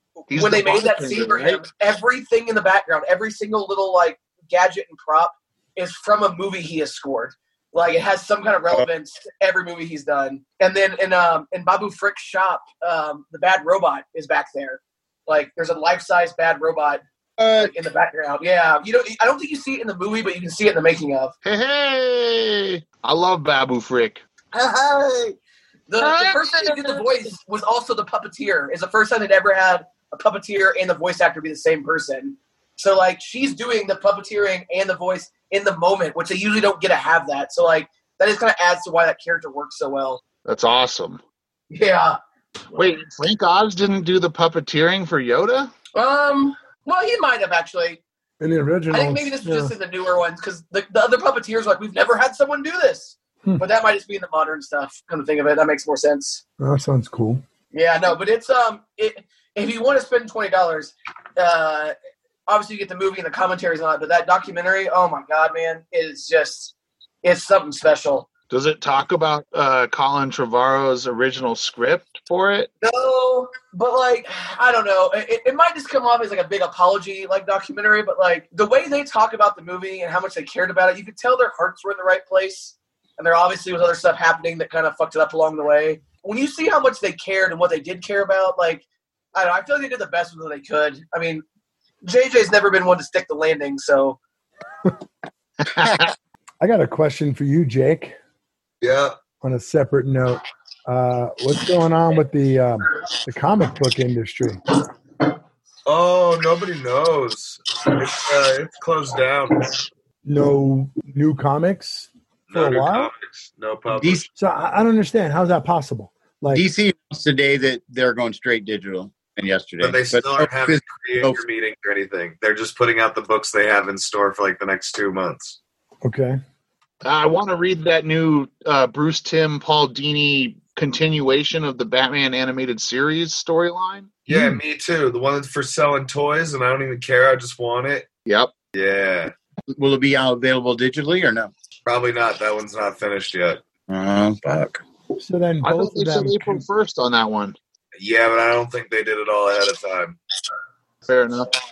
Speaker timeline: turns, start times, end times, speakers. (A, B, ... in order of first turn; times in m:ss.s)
0:00.3-0:01.6 A
0:00.3-0:17.0 B
0:17.4-0:17.7 C
0:17.6-0:21.3 B
0:21.4-0:25.3 A
0:25.9-0:40.2 B
0:26.0-0:27.2 A
0:40.4-0:41.2 A
0:41.7-0:42.2 B
0:42.7-0:45.7 A
0:45.9-0:48.0 B
0:48.4-0:49.7 D
0:48.9-0:56.4 B
0:56.6-0:57.4 D
0:57.7-1:01.9 B
1:02.5-1:08.3 B
1:08.5-1:12.7 A
1:12.8-1:31.4 B
1:32.0-1:34.2 B
1:35.6-1:36.1 A
1:36.6-1:38.2 D
1:38.8-1:39.1 E
1:39.4-1:44.6 D
1:45.8-1:49.8 E
1:50.2-1:53.1 D
1:52.5-1:54.3 E
1:53.9-1:54.3 C
1:54.4-1:56.6 D
1:56.5-2:01.4 C
1:59.8-2:05.6 E
2:06.0-2:06.4 D
2:07.0-2:14.2 A
2:14.3-2:18.1 E
2:14.3-2:14.6 D
2:18.3-2:18.5 A
2:18.7-2:19.3 E
2:19.7-2:21.5 C
2:21.8-2:23.6 E
2:23.9-2:24.8 C
2:25.2-2:26.6 D
2:25.6-2:27.6 A
2:28.0-2:30.2 E
2:31.0-2:31.5 A